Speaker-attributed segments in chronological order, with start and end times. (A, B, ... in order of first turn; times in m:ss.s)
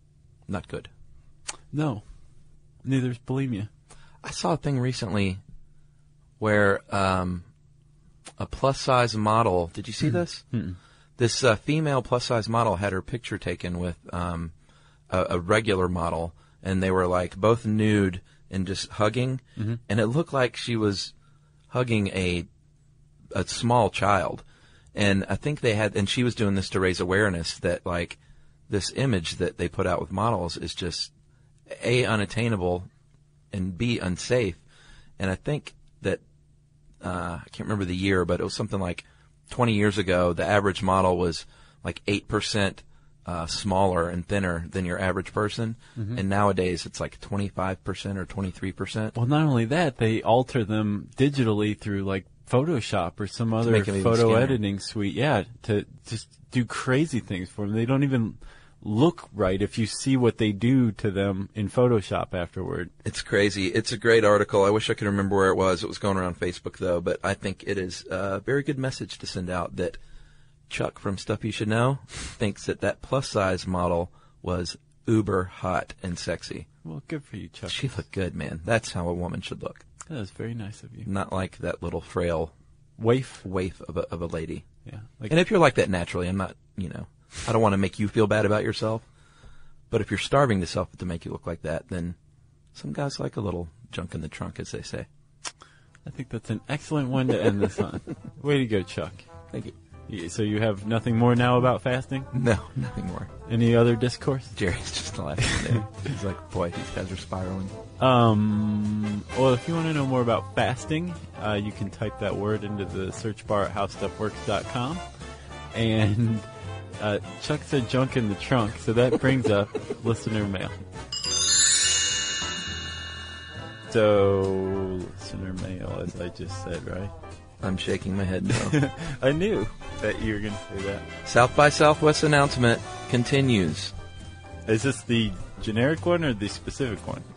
0:00.5-0:00.9 A
0:01.7-0:02.0 B
0:02.8-0:03.7 B
0:04.2-0:05.4 A
0:06.4-0:07.5 A
0:08.4-0:10.4 A
0:10.0-0:10.8 B
0:11.2-0:14.5 A
0:15.1-0:21.1 A
0:21.7-0:22.5 A
0:23.3-0:24.4 A
0:25.0-0:28.2 A
0:28.7-0:31.1 A
0:31.7-0:32.9 A
0:33.5-0:34.6 A
0:35.2-0:36.2 A
0:37.0-0:49.2 A
0:49.2-1:02.9 B
0:53.6-0:54.6 A
1:03.0-1:10.0 A
1:10.7-1:16.7 A
1:16.8-1:17.8 B
1:17.7-1:19.8 A
1:20.1-1:21.1 B
1:21.1-1:22.5 A
1:23.0-1:23.4 B
1:23.4-1:24.6 A
1:24.9-1:25.3 B
1:25.3-1:29.0 A
1:29.9-1:32.2 A
1:32.8-1:35.1 A
1:36.1-1:39.2 B
1:40.1-1:42.3 B
1:42.3-1:43.3 A
1:43.5-1:44.6 B
1:44.6-1:47.7 A
1:48.0-1:55.0 B
1:55.7-1:56.5 B
1:57.0-2:00.7 B
2:03.9-2:07.1 B
2:07.6-2:08.8 A
2:08.5-2:11.0 B
2:11.2-2:13.9 A
2:14.7-2:17.2 B